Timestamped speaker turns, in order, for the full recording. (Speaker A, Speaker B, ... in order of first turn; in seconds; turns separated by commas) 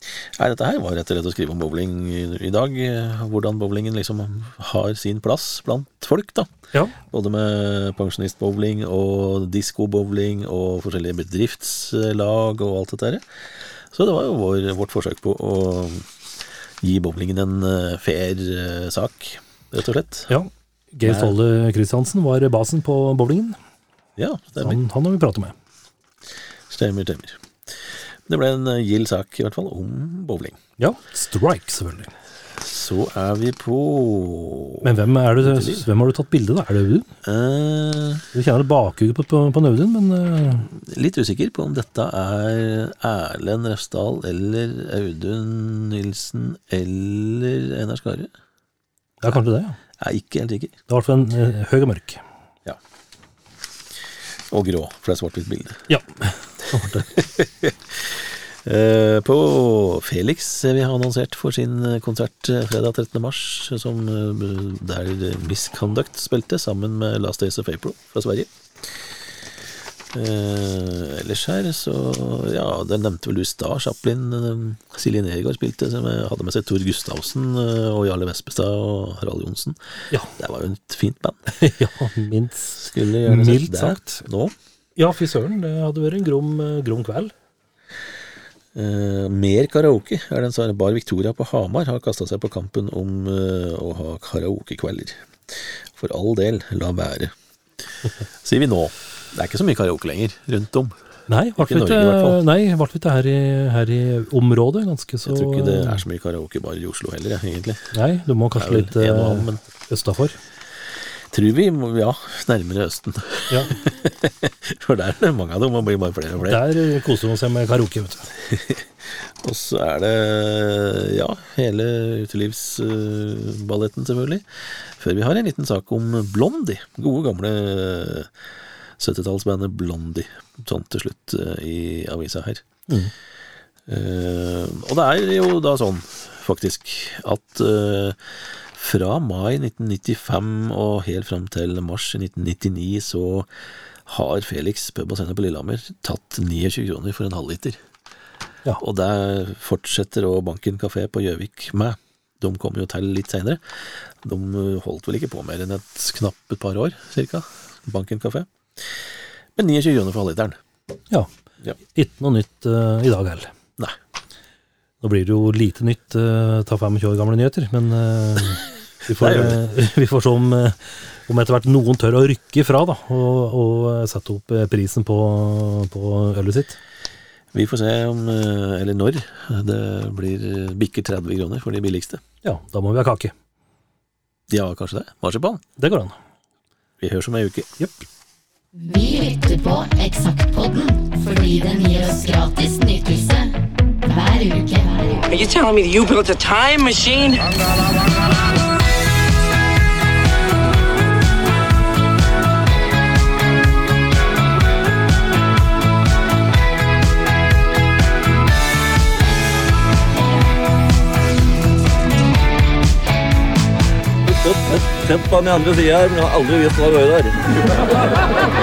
Speaker A: 0.4-6.5, Speaker A: 7.1-16.1, Speaker A: 16.8-20.3, Speaker B: 20.3-23.6, Speaker A: 21.1-21.4, Speaker A: 24.2-24.8, Speaker B: 24.6-25.5, Speaker A: 26.7-30.6, Speaker B: 30.8-32.1, Speaker A: 32.6-34.9, Speaker B: 34.8-37.1, Speaker A: 35.4-35.9, Speaker A: 37.2-38.3, Speaker B: 38.3-40.7, Speaker A: 40.7-48.3, Speaker B: 49.2-49.8, Speaker A: 50.0-50.8, Speaker B: 50.9-52.2, Speaker A: 54.5-55.9, Speaker B: 55.9-57.1, Speaker A: 57.1-69.1, Speaker A: 70.1-81.4, Speaker B: 81.5-84.2, Speaker A: 82.8-84.5, Speaker B: 85.0-87.3, Speaker A: 88.7-97.3, Speaker A: 98.4-101.0, Speaker B: 101.3-106.0, Speaker A: 101.6-102.4, Speaker A: 105.2-107.9, Speaker B: 107.9-110.4, Speaker A: 108.5-109.6, Speaker A: 111.3-116.6, Speaker B: 116.4-118.3, Speaker A: 118.5-128.3, Speaker A: 129.0-132.7, Speaker A: 133.9-143.5, Speaker A: 144.1-147.8, Speaker A: 148.8-159.0, Speaker A: 159.6-160.6, Speaker B: 161.9-163.5, Speaker B: 165.0-176.8, Speaker A: 169.2-169.6, Speaker A: 177.5-182.2, Speaker B: 182.4-183.3, Speaker A: 184.5-185.6, Speaker B: 185.8-186.1, Speaker A: 187.0-187.7, Speaker C: 188.7-195.3, Speaker D: 195.3-197.6, Speaker E: 214.2-218.1